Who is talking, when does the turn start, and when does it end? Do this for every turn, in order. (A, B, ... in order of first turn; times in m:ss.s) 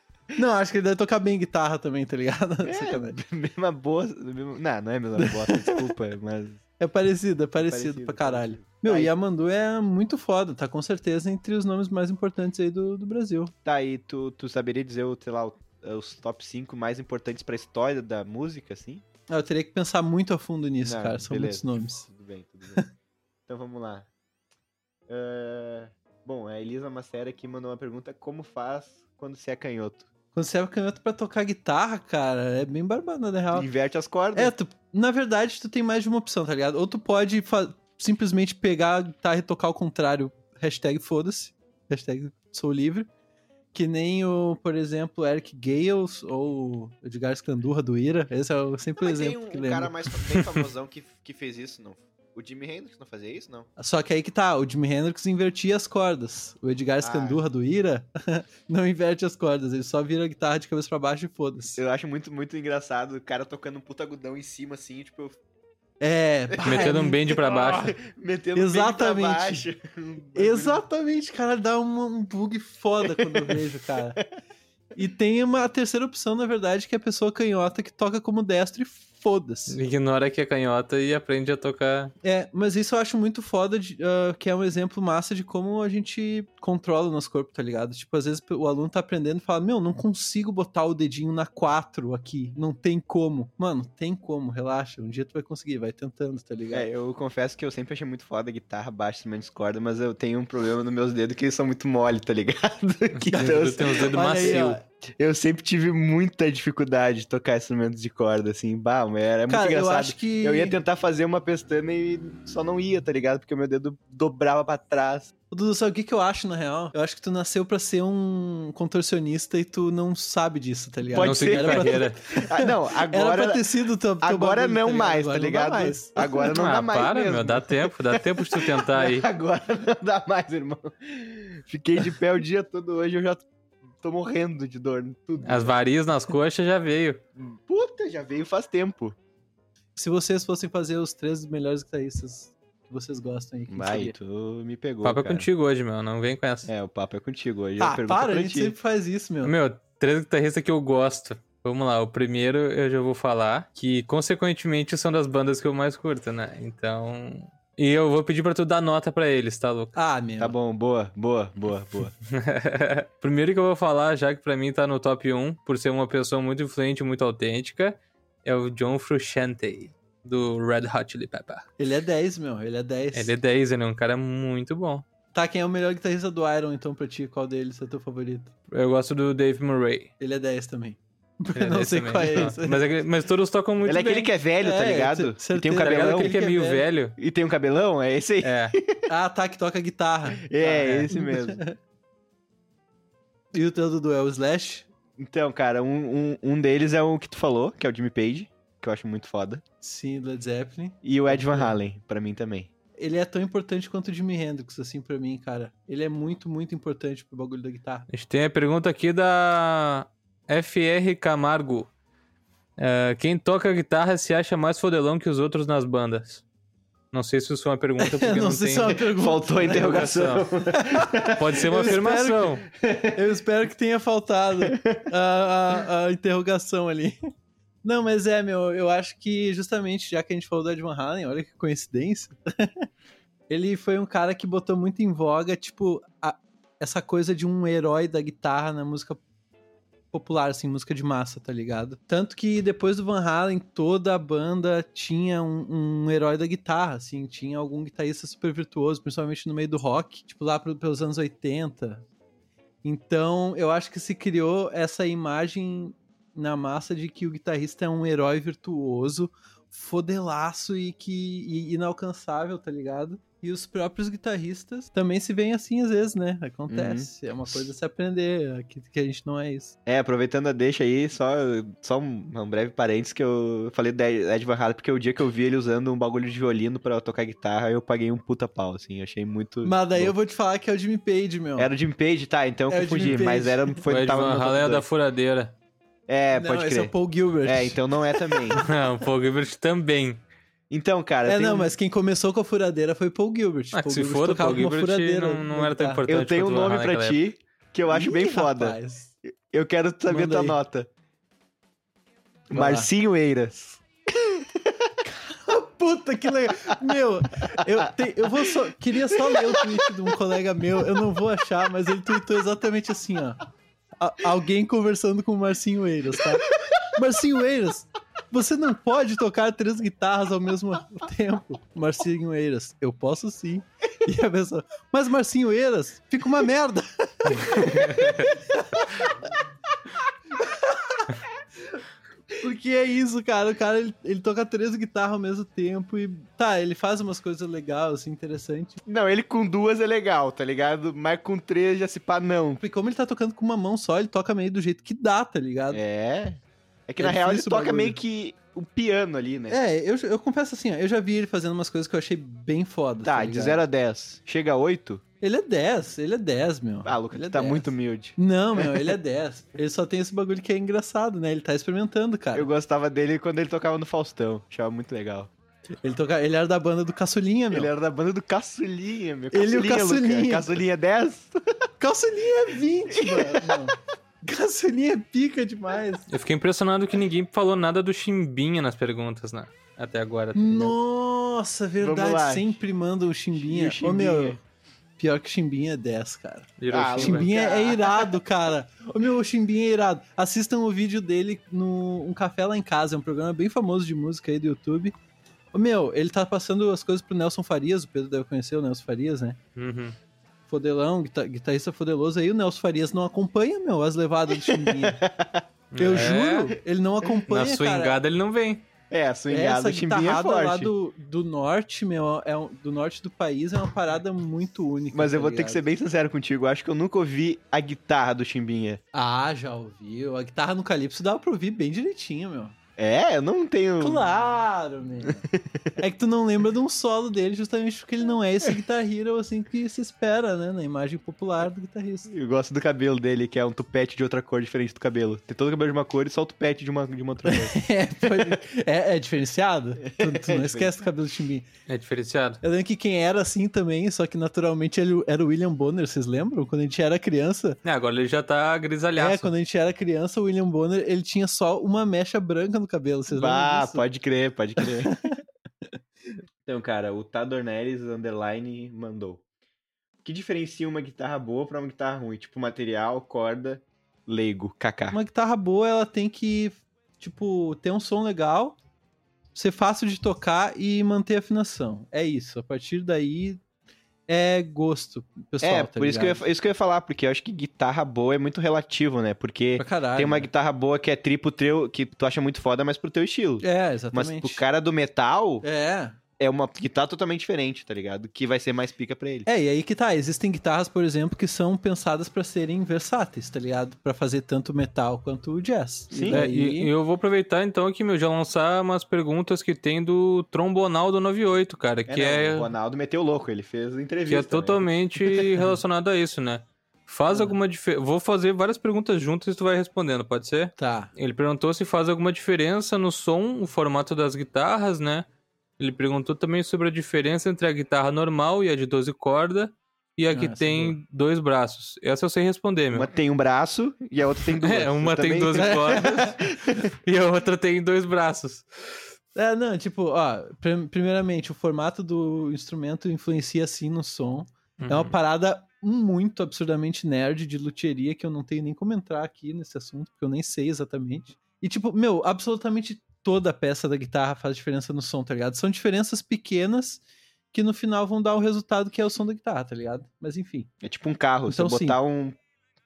0:00.3-0:03.2 A
0:02.6-0:06.6 B
0:05.2-0:05.9 A
0:06.8-0:13.5 A
0:07.6-0:09.1 B
0:13.6-0:19.0 B
0:19.3-0:22.1 A
0:20.8-0:22.8 B
0:23.5-0:24.1 B
0:25.1-0:30.1 B
0:30.3-0:33.7 A
0:33.5-0:34.5 B
0:34.3-0:43.1 A
0:43.7-0:50.4 A
0:49.0-0:53.7 B
0:53.8-1:01.8 A
0:57.0-0:57.4 B
1:01.8-1:05.4 B
1:06.0-1:07.2 A
1:06.5-1:10.8 B
1:06.7-1:07.9 C
1:08.6-1:09.7 A
1:10.4-1:14.2 A
1:13.0-1:14.3 B
1:15.0-1:19.8 A
1:19.7-1:22.1 C
1:22.2-1:36.9 A
1:36.7-1:44.6 B
1:43.2-1:44.8 C
1:43.3-1:44.8 A
1:45.2-1:55.3 B
1:49.5-1:50.8 A
1:55.5-2:06.4 A
2:01.1-2:03.7 B
2:01.2-2:02.2 C
2:04.2-2:13.5 B
2:06.5-2:09.3 C
2:14.0-2:15.8 B
2:15.4-2:17.2 C
2:17.4-2:19.2 B
2:20.0-2:24.1 A
2:23.7-2:25.5 B
2:25.0-2:26.7 C
2:26.7-2:28.8 B
2:27.8-2:29.5 A
2:29.4-2:40.0 C
2:40.0-2:40.6 A
2:40.4-2:42.1 B
2:42.2-2:51.7 C
2:51.8-2:53.4 A
2:53.1-2:55.0 C
2:55.3-2:58.5 A
2:58.7-3:00.1 C
3:00.2-3:02.8 A
3:01.6-3:04.3 C
3:03.8-3:06.4 B
3:04.6-3:06.9 A
3:05.8-3:07.2 C
3:07.2-3:09.0 B
3:08.4-3:08.8 C
3:09.1-3:11.8 A
3:10.4-3:11.6 B
3:10.8-3:11.1 C
3:13.5-3:14.9 A
3:15.2-3:19.6 B
3:19.8-3:21.8 A
3:21.0-3:22.7 B
3:23.0-3:28.1 A
3:28.1-3:31.9 C
3:32.8-3:36.4 C
3:37.1-3:39.0 C
3:38.0-3:40.1 A
3:38.9-3:41.6 B
3:39.7-3:40.5 C
3:40.7-3:42.6 A
3:41.3-3:42.6 C
3:42.8-3:43.2 B
3:43.1-3:47.2 A
3:44.6-3:45.0 B
3:47.8-3:52.9 A
3:53.5-3:59.2 A
4:00.1-4:12.0 A
4:12.8-4:29.8 A
4:26.7-4:27.6 B
4:29.9-4:40.1 B
4:39.6-4:41.7 A
4:41.6-4:44.8 B
4:42.7-4:43.8 A
4:43.9-4:45.5 C
4:46.1-4:46.9 B
4:46.3-4:48.6 A
4:47.4-4:48.6 B
4:48.5-4:50.2 C
4:50.7-4:51.7 B
4:51.2-4:56.0 A
4:53.7-4:57.2 C
4:56.1-4:58.8 B
4:57.9-4:59.1 A
4:59.5-5:00.9 B
5:00.1-5:00.6 A
5:02.5-5:04.9 B
5:02.5-5:02.9 A
5:05.0-5:13.4 A
5:08.2-5:08.6 B
5:09.1-5:09.9 B
5:14.0-5:29.1 A
5:27.7-5:28.2 C
5:30.4-5:31.1 A
5:32.4-5:38.8 A
5:38.9-5:42.6 B
5:42.6-5:45.8 A
5:45.7-5:49.6 B
5:47.0-5:48.0 A
5:49.5-5:53.6 A
5:53.0-5:55.0 B
5:55.2-6:02.5 A
5:56.8-5:58.9 B
6:02.3-6:05.3 B
6:05.8-6:07.7 A
6:07.5-6:11.4 B
6:09.3-6:10.5 A
6:11.8-6:16.1 A
6:12.9-6:13.6 B
6:16.1-6:20.8 C
6:20.4-6:24.4 A
6:21.8-6:22.6 B
6:23.4-6:24.4 B
6:25.0-6:34.9 A
6:26.6-6:27.3 C
6:26.7-6:28.2 B
6:35.5-6:39.4 A
6:39.6-6:40.0 C
6:40.5-6:45.0 A
6:44.3-6:46.2 B
6:45.7-6:46.5 C
6:45.8-6:48.0 A
6:47.3-6:48.7 C
6:48.9-6:50.7 B
6:49.3-6:55.6 A
6:54.9-6:58.8 B
6:58.9-7:02.6 A
7:02.8-7:04.1 B
7:03.8-7:05.3 A
7:05.1-7:05.7 B
7:05.8-7:12.1 A
7:12.1-7:18.4 B
7:17.2-7:21.5 A
7:19.8-7:20.7 B
7:21.7-7:22.4 C
7:22.4-7:27.6 A
7:27.6-7:29.3 C
7:29.0-7:33.8 A
7:33.1-7:35.0 B
7:34.6-7:35.2 A
7:36.5-7:39.2 B
7:40.0-7:45.0 B
7:44.9-7:48.6 A
7:49.4-7:53.4 A
7:54.1-7:56.2 A
7:55.4-8:05.4 B
7:59.6-8:00.3 A
8:03.4-8:04.4 A
8:05.4-8:06.0 A
8:06.2-8:09.3 B
8:09.3-8:16.7 A
8:15.9-8:16.2 B
8:16.0-8:22.5 C
8:21.9-8:24.7 B
8:24.1-8:35.1 C
8:27.1-8:27.4 A
8:30.6-8:30.9 A
8:35.6-8:42.9 C
8:40.1-8:40.8 A
8:42.7-8:46.6 B
8:44.4-8:48.5 C
8:45.4-8:46.2 A
8:49.2-9:10.5 A
8:54.6-8:55.0 C
9:10.6-9:12.2 B
9:11.3-9:11.8 A